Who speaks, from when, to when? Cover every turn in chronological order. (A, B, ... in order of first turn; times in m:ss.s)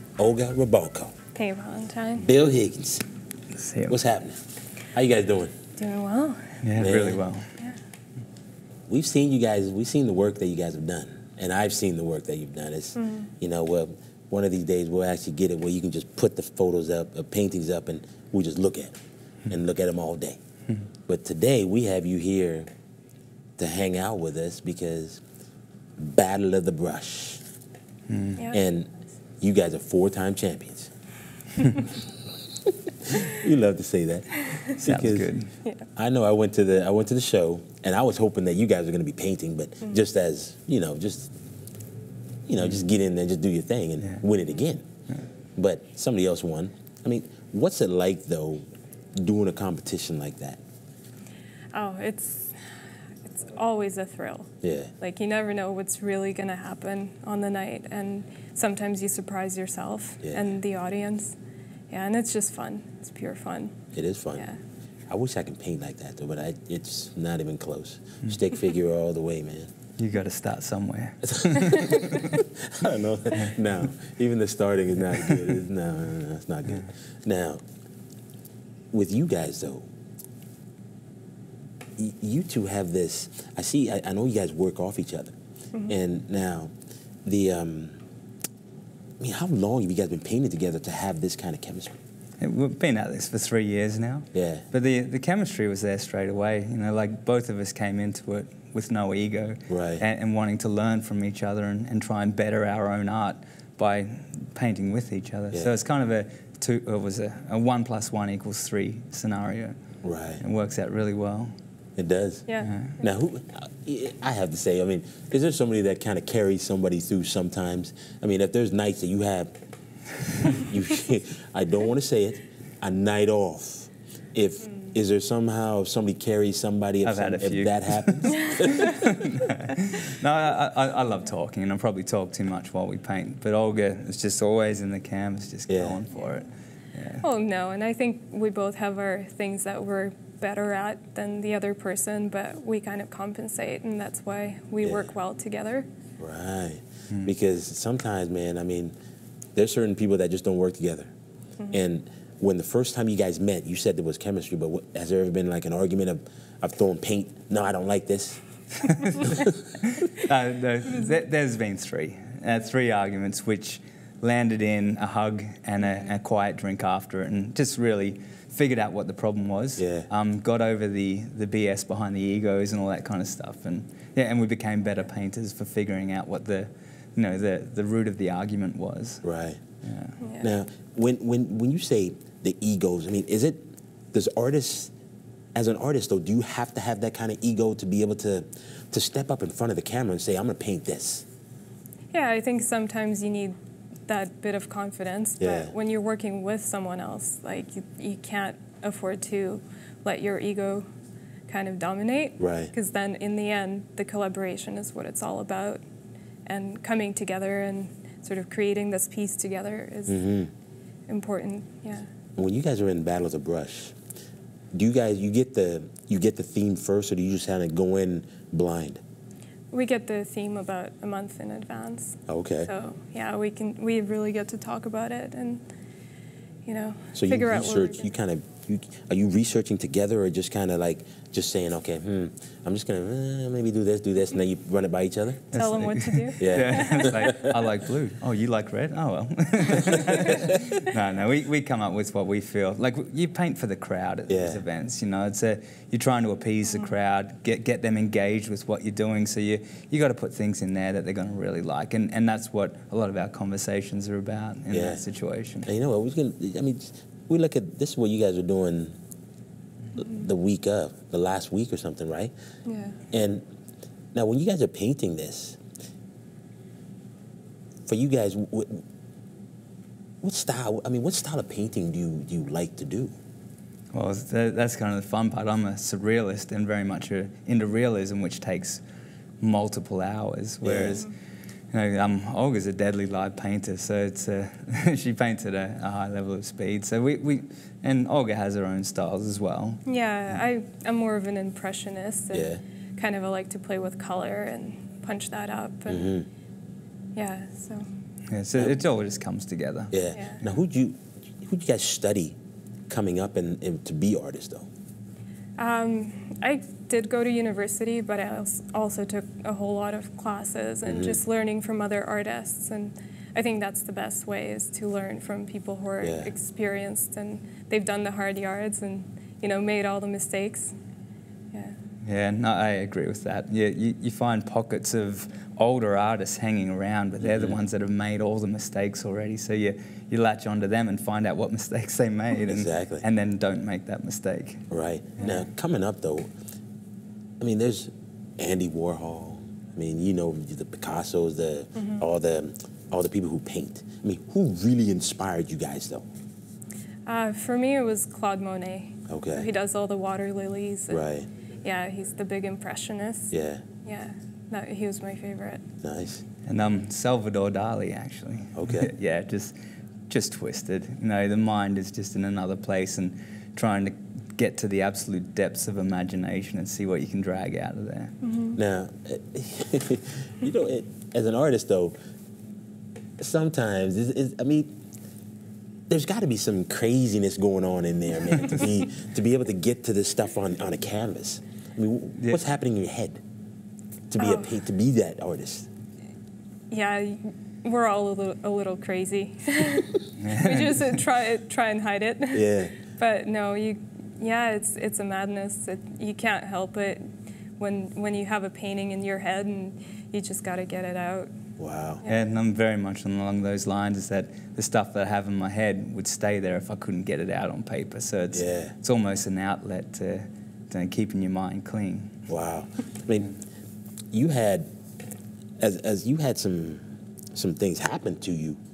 0:00.2-0:01.1 A
0:01.4-0:02.3 B
0:02.2-0:03.0 A
0:03.5-0:04.0 C
0:03.9-0:04.4 A
0:04.9-0:05.5 A
0:05.8-0:06.6 B
0:06.6-0:07.5 C
0:06.8-0:07.2 A
0:08.9-0:19.0 A
0:13.0-0:13.3 B
0:19.5-0:20.4 A
0:21.1-0:22.7 A
0:23.6-0:25.2 A
0:26.0-0:27.4 A
0:28.1-0:28.4 C
0:28.4-0:28.6 B
0:28.5-0:28.9 A
0:29.4-0:30.9 A
0:32.6-0:35.3 A
0:34.8-0:35.5 C
0:36.0-0:41.3 A
0:42.5-0:44.8 A
0:42.6-0:42.9 C
0:45.6-0:50.6 A
0:51.7-0:52.6 B
0:53.2-1:01.4 B
0:54.6-0:54.9 A
1:00.2-1:00.6 A
1:01.9-1:03.8 B
1:03.9-1:04.5 A
1:05.1-1:09.7 A
1:10.0-1:12.4 C
1:11.3-1:17.6 A
1:15.1-1:15.5 C
1:18.9-1:19.9 A
1:22.0-1:25.3 A
1:25.9-1:26.7 A
1:27.2-1:28.0 A
1:29.2-1:32.0 A
1:32.4-1:49.8 C
1:34.3-1:34.6 A
1:39.7-1:40.0 A
1:50.0-1:50.4 A
1:50.4-1:51.5 C
1:52.0-1:52.4 A
1:52.5-1:52.7 B
1:52.6-1:53.0 C
1:53.0-1:59.5 A
2:00.4-2:09.1 A
2:07.0-2:17.2 C
2:15.7-2:16.0 A
2:17.2-2:25.9 B
2:24.8-2:25.1 A
2:26.2-2:28.9 A
2:29.6-2:31.1 A
2:31.7-2:38.4 A
2:38.8-2:59.2 C
2:39.2-2:39.5 A
2:49.8-2:50.1 A
2:59.2-2:59.6 A
2:59.8-3:00.2 C
3:00.2-3:00.5 B
3:00.4-3:04.9 A
3:05.5-3:11.2 A
3:12.1-3:13.6 B
3:14.1-3:20.9 B
3:15.4-3:15.7 A
3:21.5-3:25.8 B
3:22.4-3:22.7 A
3:26.4-3:30.2 B
3:30.1-3:30.5 A
3:31.1-3:32.1 B
3:32.4-3:34.0 A
3:34.7-3:39.0 A
3:39.7-3:45.6 B
3:42.3-3:42.7 A
3:46.6-3:48.1 B
3:47.1-3:55.5 A
3:55.5-4:15.7 C
3:55.5-3:57.3 B
3:56.4-3:57.7 A
4:04.3-4:04.6 A
4:14.7-4:15.0 A
4:15.6-4:18.9 A
4:20.0-4:22.3 A
4:22.6-4:23.0 B
4:23.1-4:23.4 A
4:24.1-4:25.6 A
4:27.9-4:28.8 A
4:30.2-4:33.1 A
4:33.9-4:38.8 C
4:39.4-4:41.0 C
4:40.6-4:41.0 A
4:41.7-4:49.8 C
4:49.9-4:56.1 B
4:52.3-4:52.6 A
4:55.9-4:56.3 A
4:57.1-4:57.9 B
4:58.3-4:59.9 C
4:59.9-5:02.4 A
5:00.1-5:00.4 B
5:02.9-5:04.7 A
5:05.6-5:20.7 B
5:10.8-5:11.2 A
5:16.0-5:16.3 A
5:22.0-5:34.6 C
5:27.2-5:27.6 A
5:32.5-5:33.0 A
5:34.7-5:36.3 A
5:37.4-5:46.0 A
5:47.0-5:51.0 B
5:49.1-5:49.5 A
5:50.9-5:51.3 A
5:51.6-5:53.3 B
5:53.3-5:53.6 A
5:53.8-5:55.7 B
5:55.8-5:56.2 A
5:56.4-5:59.6 C
5:58.6-5:58.9 A
6:00.1-6:08.2 C
6:08.2-6:08.6 B
6:08.5-6:11.9 A
6:13.2-6:14.7 A
6:15.9-6:23.2 A
6:22.2-6:22.4 C
6:24.1-6:25.7 A
6:24.2-6:24.5 B
6:26.7-6:37.0 B
6:30.2-6:31.0 C
6:32.3-6:32.7 A
6:37.6-6:41.3 B
6:41.6-6:42.0 A
6:42.0-6:52.2 C
6:48.3-6:48.7 A
6:52.3-6:53.4 A
6:54.1-6:54.7 A
6:55.6-6:56.8 A
6:57.3-6:58.6 A